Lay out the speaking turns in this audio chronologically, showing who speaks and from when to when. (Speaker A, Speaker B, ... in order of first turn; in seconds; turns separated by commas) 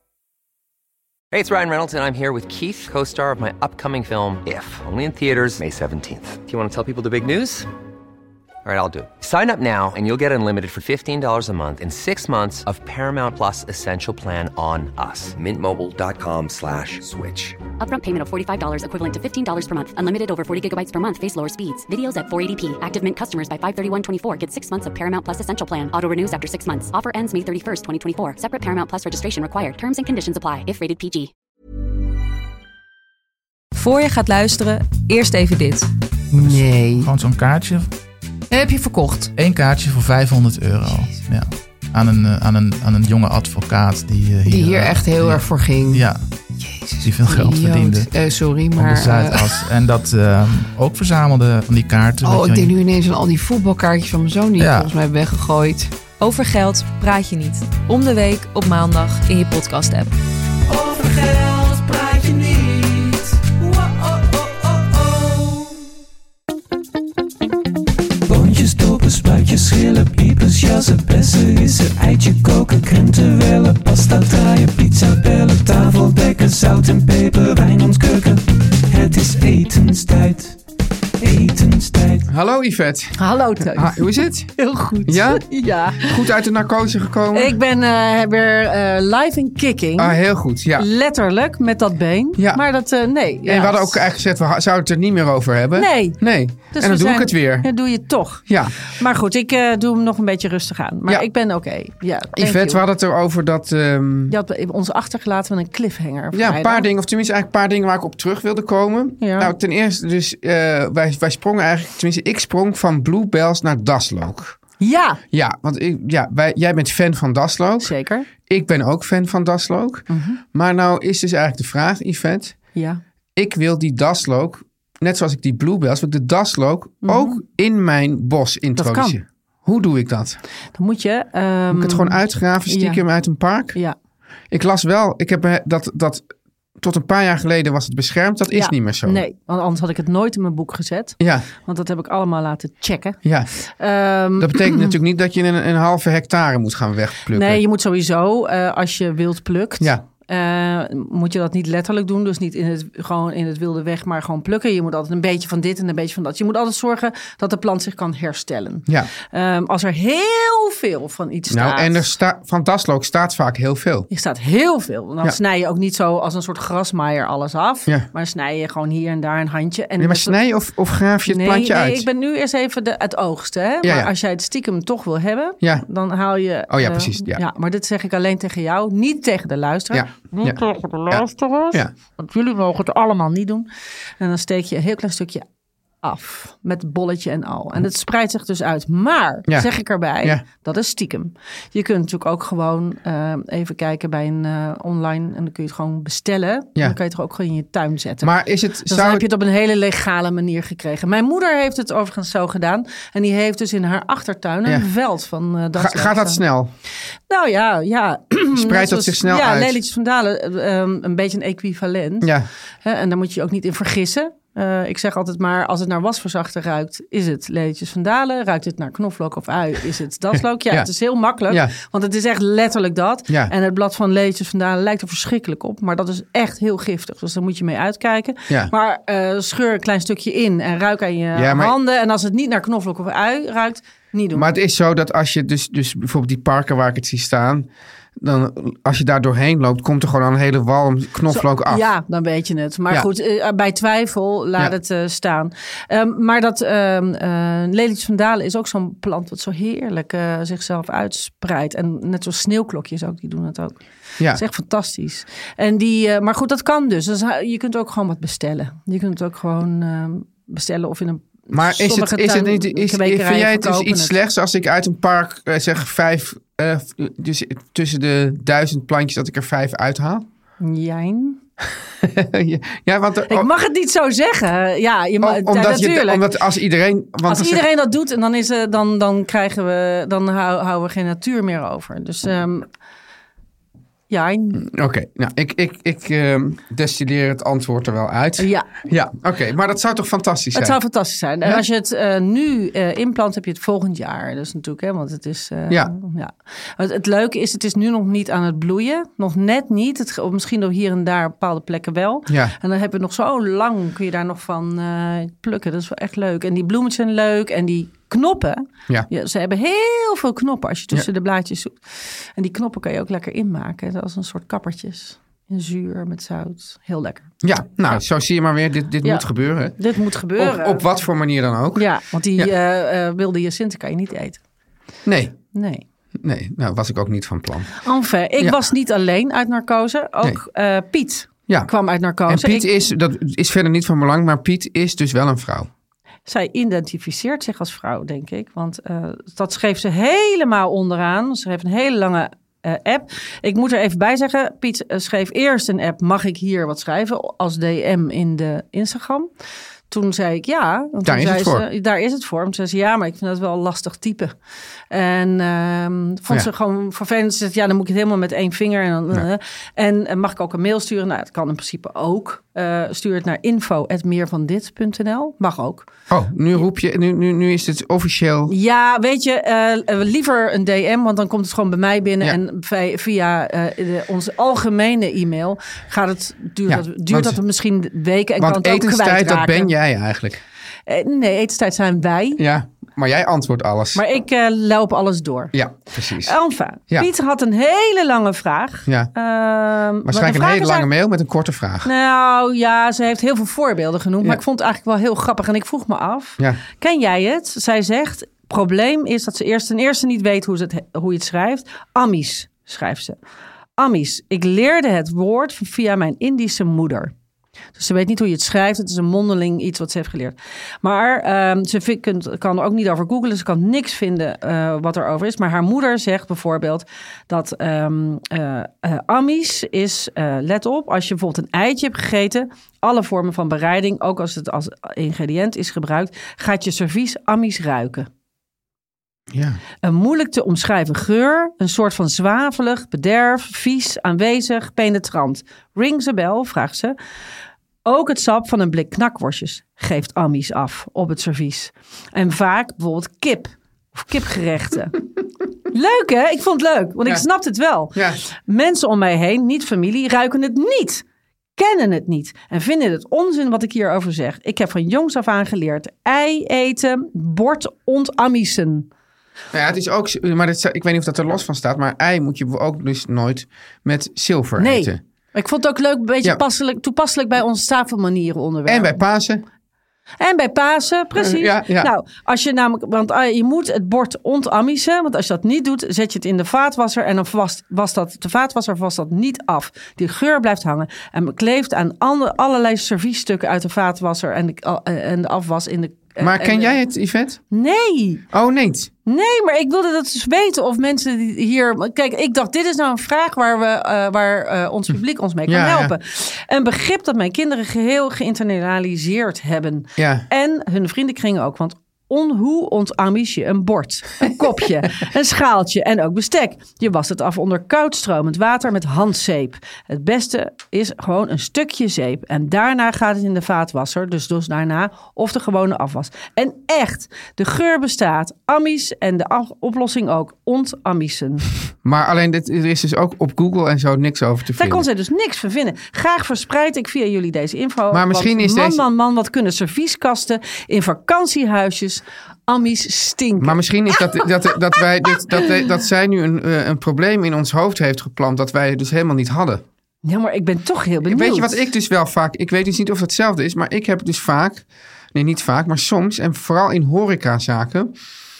Speaker A: 1.3-7.7, Speaker A: 8.6-17.6, Speaker B: 17.8-31.3, Speaker C: 33.7-35.9, Speaker D: 36.3-37.1, Speaker E: 36.4-37.9, Speaker C: 38.5-39.3, Speaker E: 39.4-46.2, Speaker D: 44.5-46.0, Speaker D: 46.6-49.7, Speaker E: 46.9-52.7, Speaker D: 52.2-56.0, Speaker E: 54.6-54.9, Speaker C: 56.2-60.1, Speaker F: 60.7-65.7, Speaker F: 68.2-80.6, Speaker F: 81.2-82.2, Speaker G: 82.2-87.6, Speaker H: 83.2-86.2, Speaker H: 87.3-90.2, Speaker G: 90.0-90.9, Speaker H: 90.8-94.0, Speaker G: 92.4-92.6, Speaker G: 93.5-97.7, Speaker H: 95.8-102.8, Speaker G: 98.5-98.8, Speaker G: 102.3-104.4, Speaker H: 104.3-106.8, Speaker G: 106.3-114.6, Speaker H: 109.2-109.5, Speaker H: 114.8-115.2, Speaker G: 115.3-117.9, Speaker H: 117.8-118.3, Speaker G: 118.5-122.6, Speaker H: 120.1-120.4, Speaker H: 122.7-123.0, Speaker G: 123.3-130.4, Speaker H: 127.0-127.4, Speaker H: 128.8-129.2, Speaker H: 130.7-133.0, Speaker G: 131.7-133.8, Speaker G: 134.5-136.2, Speaker G: 136.8-139.2, Speaker H: 138.5-144.9, Speaker G: 141.2-141.5, Speaker G: 143.2-143.5, Speaker G: 144.4-147.6, Speaker H: 147.3-162.0, Speaker G: 161.5-164.1, Speaker H: 164.1-170.4, Speaker G: 170.0-172.1, Speaker H: 171.3-183.7, Speaker G: 173.8-174.1, Speaker G: 175.6-175.8, Speaker G: 176.7-177.4, Speaker G: 179.9-181.9, Speaker H: 184.2-185.4, Speaker H: 186.0-198.3, Speaker G: 198.2-199.2, Speaker H: 198.8-206.4, Speaker G: 205.8-206.7, Speaker H: 207.3-212.3, Speaker G: 208.5-209.8, Speaker G: 212.2-212.5, Speaker H: 212.8-234.5, Speaker G: 221.5-221.7, Speaker G: 231.3-231.8, Speaker G: 234.3-237.7, Speaker G: 238.2-241.8, Speaker H: 241.3-264.2, Speaker G: 261.5-270.3, Speaker H: 270.6-271.4, Speaker G: 272.0-273.5, Speaker H: 273.3-276.3, Speaker G: 275.2-277.7, Speaker H: 277.2-282.7, Speaker H: 284.1-284.6, Speaker G: 284.6-290.8, Speaker H: 288.4-288.7, Speaker H: 290.5-317.3, Speaker G: 302.3-302.5, Speaker G: 317.4-319.8, Speaker H: 319.0-320.8, Speaker G: 320.4-322.5, Speaker H: 321.8-324.4, Speaker G: 325.1-325.4, Speaker H: 325.5-325.8, Speaker G: 326.2-327.8, Speaker H: 327.8-332.6, Speaker G: 332.2-335.7, Speaker H: 336.3-349.3, Speaker H: 349.9-354.4, Speaker G: 351.0-351.7, Speaker H: 354.9-365.9, Speaker G: 366.1-368.5, Speaker H: 368.5-379.7, Speaker G: 376.7-377.4, Speaker G: 378.4-380.4, Speaker H: 380.9-382.4, Speaker G: 382.4-384.0, Speaker H: 383.9-385.5, Speaker G: 385.5-386.4, Speaker H: 386.1-390.9, Speaker G: 388.9-389.1, Speaker G: 390.0-391.9, Speaker H: 391.8-403.2, Speaker H: 403.8-407.1, Speaker H: 407.7-428.1, Speaker G: 429.3-429.6, Speaker H: 429.8-436.9, Speaker H: 437.9-445.0, Speaker H: 445.7-451.0, Speaker G: 447.9-448.2, Speaker H: 451.6-458.9, Speaker G: 459.5-465.0, Speaker H: 464.6-469.0, Speaker G: 468.7-469.4, Speaker H: 470.2-486.8, Speaker G: 471.1-471.9, Speaker G: 486.2-487.4, Speaker H: 487.5-488.2, Speaker G: 488.3-488.9, Speaker H: 489.1-521.5, Speaker G: 495.5-495.9, Speaker G: 500.0-500.2, Speaker G: 521.8-524.8, Speaker H: 524.5-534.3, Speaker G: 527.9-528.8, Speaker G: 533.4-539.6, Speaker H: 535.1-535.5, Speaker H: 540.0-541.6, Speaker G: 541.1-547.9